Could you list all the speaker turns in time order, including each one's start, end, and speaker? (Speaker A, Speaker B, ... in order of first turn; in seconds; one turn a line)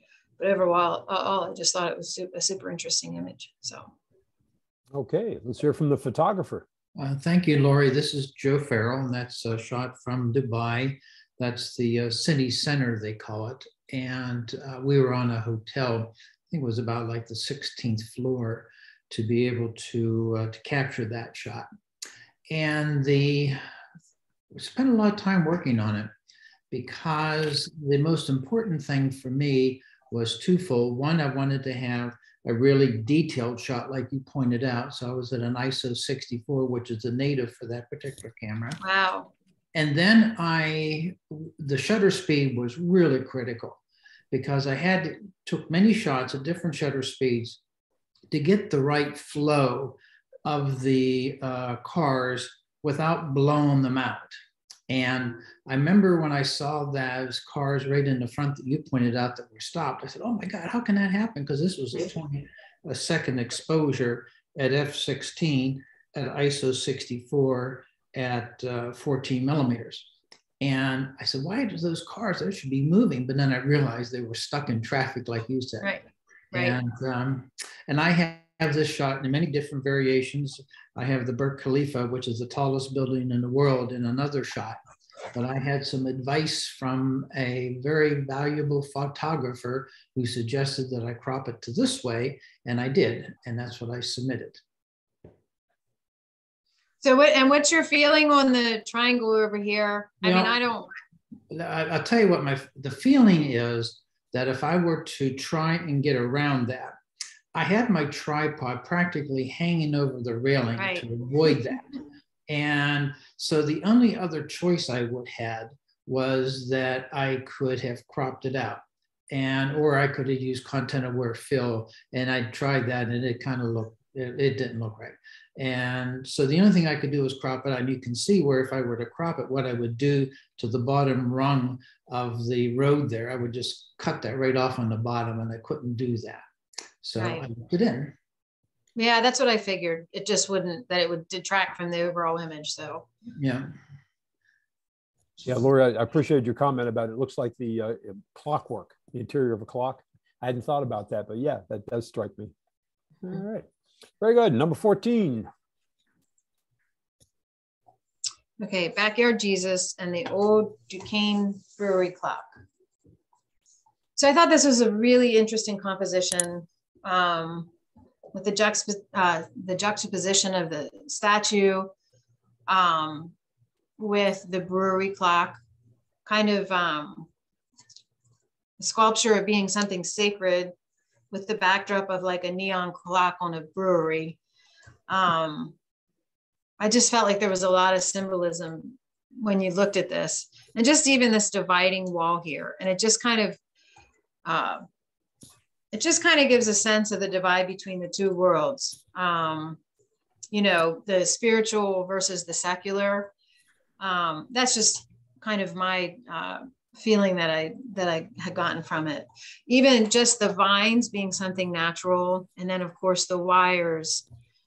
Speaker A: 0.4-3.9
Speaker B: 4.9-6.7
Speaker C: 7.0-21.7
Speaker C: 22.5-23.6
Speaker C: 24.5-26.1
Speaker C: 26.7-38.8
Speaker A: 38.8-39.3
Speaker C: 39.7-43.8
Speaker C: 44.3-47.6
Speaker C: 48.3-54.3
Speaker C: 54.9-70.1
Speaker C: 70.6-76.0
Speaker A: 75.8-76.8
Speaker C: 76.5-84.8
Speaker C: 85.3-94.6
Speaker A: 97.0-100.9
Speaker C: 100.2-100.5
Speaker C: 101.5-107.0
Speaker C: 107.5-111.8
Speaker A: 110.8-111.1
Speaker C: 112.5-136.4
Speaker C: 137.0-138.2
Speaker A: 137.2-137.4
Speaker A: 139.0-143.1
Speaker C: 143.4-143.7
Speaker B: 145.4-152.5
Speaker B: 153.2-153.7
Speaker B: 154.2-155.5
Speaker A: 158.6-162.5
Speaker A: 164.2-167.7
Speaker A: 168.3-171.9
Speaker A: 172.7-173.3
Speaker A: 174.0-175.6
Speaker A: 176.3-177.3
Speaker A: 178.8-180.7
Speaker A: 181.3-184.4
Speaker A: 185.1-185.8
Speaker A: 186.8-193.6
Speaker A: 194.4-194.9
Speaker A: 195.9-199.8
Speaker A: 200.5-203.3
Speaker A: 204.0-214.2